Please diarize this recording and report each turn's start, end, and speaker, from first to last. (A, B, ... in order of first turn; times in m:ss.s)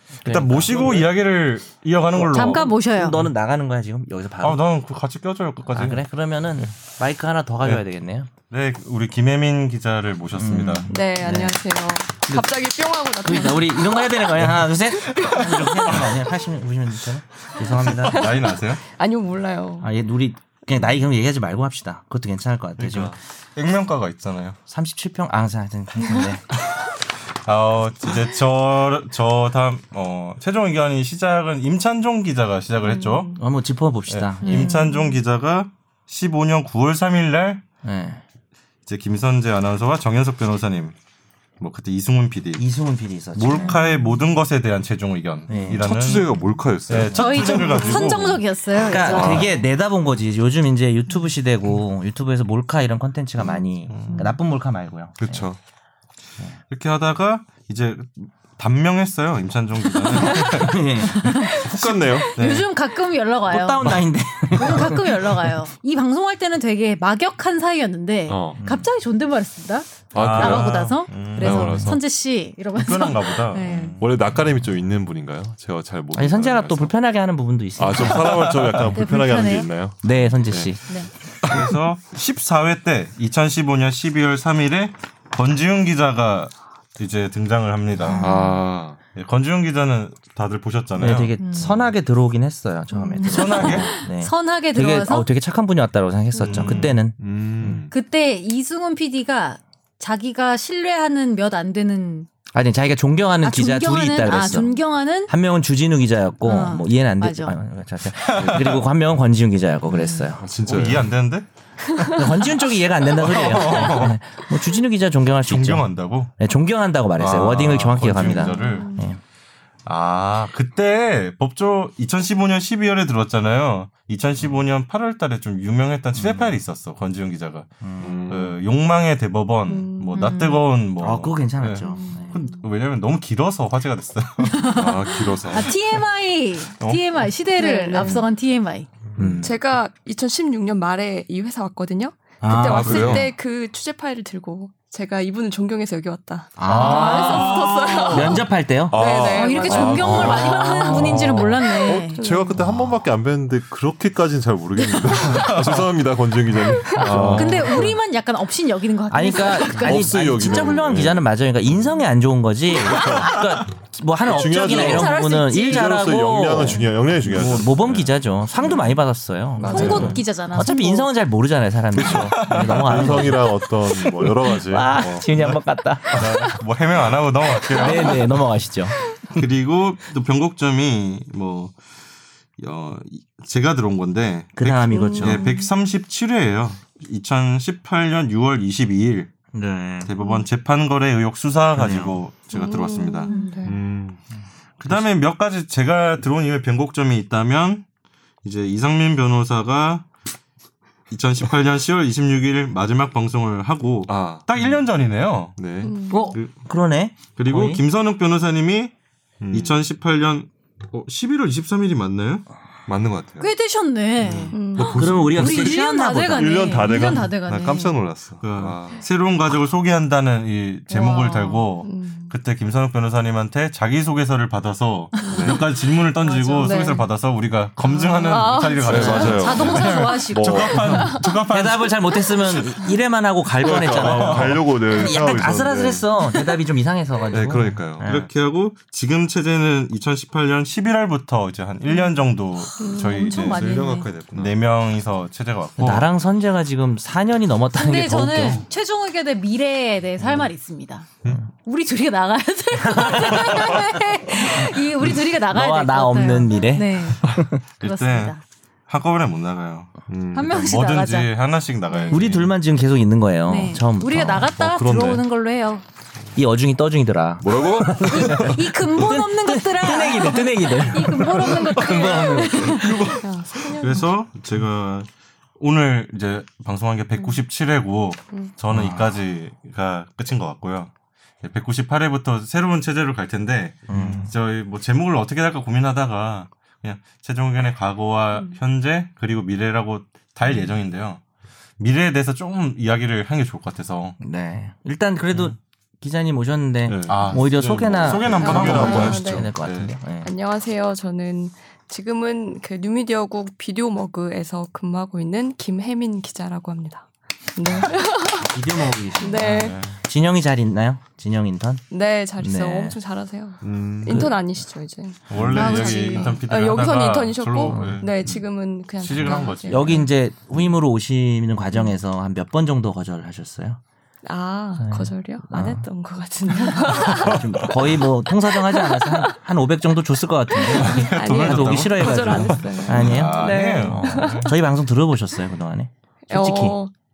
0:00.2-0:01.0 A
0:00.2-0:02.7 B
0:00.7-0:01.1 C
0:02.2-0:04.6 A
0:02.3-0:03.2 D
0:04.4-0:06.0 B
0:05.7-0:08.3 A
0:08.5-0:10.9 B
0:10.4-0:11.6 A
0:10.9-0:14.2 E
0:13.2-0:18.3 A
0:15.1-0:16.1 B
0:15.2-0:15.7 E
0:17.9-0:18.8 B
0:18.0-0:19.9 E
0:19.8-0:23.2 A
0:22.8-0:24.6 B
0:24.7-0:26.4 A
0:27.4-0:33.3 B
0:33.0-0:33.4 E
0:33.4-0:34.7 A
0:34.1-0:37.6 B
0:34.4-0:35.2 D
0:37.8-0:38.2 A
0:38.9-0:41.0 B
0:41.6-0:42.6 B
0:42.6-0:43.8 A
0:43.4-0:48.4 B
0:43.5-0:44.0 D
0:45.5-0:45.8 A
0:45.7-0:48.3 C
0:47.1-0:49.6 D
0:48.8-0:55.5 A
0:49.1-0:49.5 C
0:53.9-0:54.3 B
0:54.1-0:54.4 D
0:55.2-0:55.6 C
0:56.7-1:01.1 B
1:00.2-1:14.0 D
1:00.2-1:02.2 A
1:01.7-1:02.3 C
1:02.4-1:02.7 B
1:03.5-1:05.5 A
1:08.3-1:08.6 C
1:08.6-1:08.9 A
1:10.1-1:12.0 C
1:10.2-1:11.8 B
1:12.8-1:14.3 B
1:14.0-1:17.0 C
1:16.1-1:19.0 A
1:17.8-1:20.8 C
1:18.9-1:19.7 D
1:20.0-1:20.8 A
1:21.4-1:28.3 B
1:28.1-1:28.6 D
1:28.2-1:29.0 C
1:29.2-1:31.7 B
1:31.0-1:37.8 A
1:31.4-1:31.8 D
1:33.0-1:35.3 D
1:33.2-1:34.0 B
1:36.4-1:37.0 B
1:36.5-1:37.9 C
1:37.9-1:42.3 D
1:42.5-1:50.4 A
1:43.4-1:45.3 D
1:46.4-1:47.6 D
1:48.2-1:48.8 B
1:48.4-1:48.8 C
1:49.9-1:50.3 D
1:50.4-1:51.1 C
1:50.6-1:51.5 B
1:51.9-1:52.3 E
1:52.1-1:59.2 A
1:53.0-1:54.2 B
1:55.5-1:56.3 B
1:57.2-1:58.9 B
1:57.4-1:58.4 C
1:58.5-1:59.0 E
1:58.6-1:58.9 D
1:59.9-2:07.7 B
2:06.2-2:06.5 C
2:07.8-2:08.3 A
2:08.0-2:08.6 C
2:08.3-2:14.9 B
2:09.7-2:10.4 E
2:10.1-2:10.6 D
2:11.0-2:12.4 A
2:14.4-2:18.9 D
2:14.7-2:15.8 C
2:16.8-2:17.1 B
2:17.6-2:18.3 E
2:19.2-2:19.5 A
2:19.4-2:30.8 E
2:22.4-2:23.3 A
2:22.7-2:23.2 B
2:22.7-2:23.3 C
2:26.6-2:29.3 A
2:26.7-2:28.4 B
2:26.7-2:27.6 D
2:28.9-2:38.0 C
2:29.3-2:32.2 D
2:29.9-2:31.5 A
2:31.9-2:32.6 E
2:35.1-2:35.5 D
2:35.3-2:35.9 B
2:36.7-2:37.1 E
2:37.0-2:37.8 A
2:37.1-2:37.4 B
2:37.3-2:40.3 D
2:39.1-2:56.6 A
2:39.7-2:41.3 C
2:42.8-2:43.4 C
2:44.2-2:48.2 C
2:44.4-2:46.1 D
2:49.6-2:50.2 C
2:49.6-2:50.1 E
2:49.6-2:51.1 D
2:51.9-2:55.6 C
2:52.0-2:53.3 B
2:56.2-2:58.4 B
2:57.6-2:59.0 A
2:59.3-3:01.8 B
3:02.6-3:09.3 B
3:04.6-3:05.5 A
3:04.9-3:05.6 E
3:09.5-3:10.1 A
3:10.0-3:13.3 B
3:11.8-3:12.2 A
3:12.5-3:13.8 E
3:13.2-3:13.6 D
3:13.6-3:14.2 C
3:14.8-3:17.8 B
3:18.4-3:20.1 B
3:21.1-3:25.6 B
3:24.1-3:24.5 C
3:25.6-3:26.0 C
3:25.8-3:26.3 E
3:26.1-3:27.8 A
3:26.3-3:26.6 B
3:27.3-3:28.9 B
3:29.4-3:29.8 C
3:29.5-3:32.5 B
3:32.9-3:33.5 C
3:33.4-3:38.0 D
3:34.2-3:39.0 C
3:34.5-3:35.2 E
3:34.8-3:37.2 A
3:38.4-3:52.7 B
3:40.9-3:41.7 D
3:41.8-3:42.3 E
3:45.2-3:45.4 D
3:45.2-3:45.6 E
3:45.3-3:45.7 C
3:46.2-3:47.0 D
3:46.6-3:47.0 E
3:47.8-3:48.6 D
3:47.9-3:49.6 E
3:48.8-3:51.2 C
3:49.2-3:51.1 D
3:51.0-3:51.2 E
3:51.5-3:58.3 A
3:53.6-3:56.1 C
3:53.7-3:54.6 B
3:57.3-3:58.0 C
3:58.0-4:03.7 B
4:02.8-4:04.1 D
4:02.8-4:03.2 E
4:03.3-4:04.6 C
4:04.3-4:06.1 B
4:05.8-4:08.6 A
4:07.7-4:11.1 D
4:11.6-4:17.3 D
4:12.8-4:13.8 A
4:15.5-4:17.6 A
4:17.8-4:18.4 B
4:17.8-4:18.4 D
4:18.9-4:22.5 B
4:20.1-4:20.6 C
4:20.3-4:21.3 D
4:21.9-4:22.2 D
4:22.1-4:24.5 A
4:23.5-4:25.8 D
4:24.5-4:25.2 C
4:26.4-4:33.2 A
4:27.4-4:28.7 C
4:28.1-4:33.1 D
4:31.8-4:33.2 C
4:33.2-4:34.1 E
4:33.8-4:35.1 B
4:35.6-4:40.9 B
4:38.7-4:39.2 A
4:41.4-4:51.2 B
4:43.9-4:44.3 A
4:48.3-4:48.6 E
4:50.4-4:50.8 C
4:51.8-4:54.2 B
4:54.2-5:00.3 A
4:56.8-4:59.9 C
4:57.1-4:59.3 B
4:58.4-4:59.5 E
5:00.2-5:08.6 E
5:08.3-5:11.9 A
5:09.2-5:09.8 E
5:09.4-5:10.0 B
5:11.9-5:20.1 E
5:12.4-5:13.0 A
5:13.6-5:14.3 C
5:15.3-5:18.4 B
5:15.3-5:15.9 C
5:15.5-5:16.4 D
5:17.7-5:18.0 A
5:19.0-5:20.1 B
5:19.2-5:23.8 A
5:24.2-5:29.3 E
5:24.8-5:25.9 A
5:26.7-5:36.8 A
5:30.6-5:34.6 E
5:30.8-5:34.5 B
5:32.9-5:33.5 C
5:36.3-5:36.9 E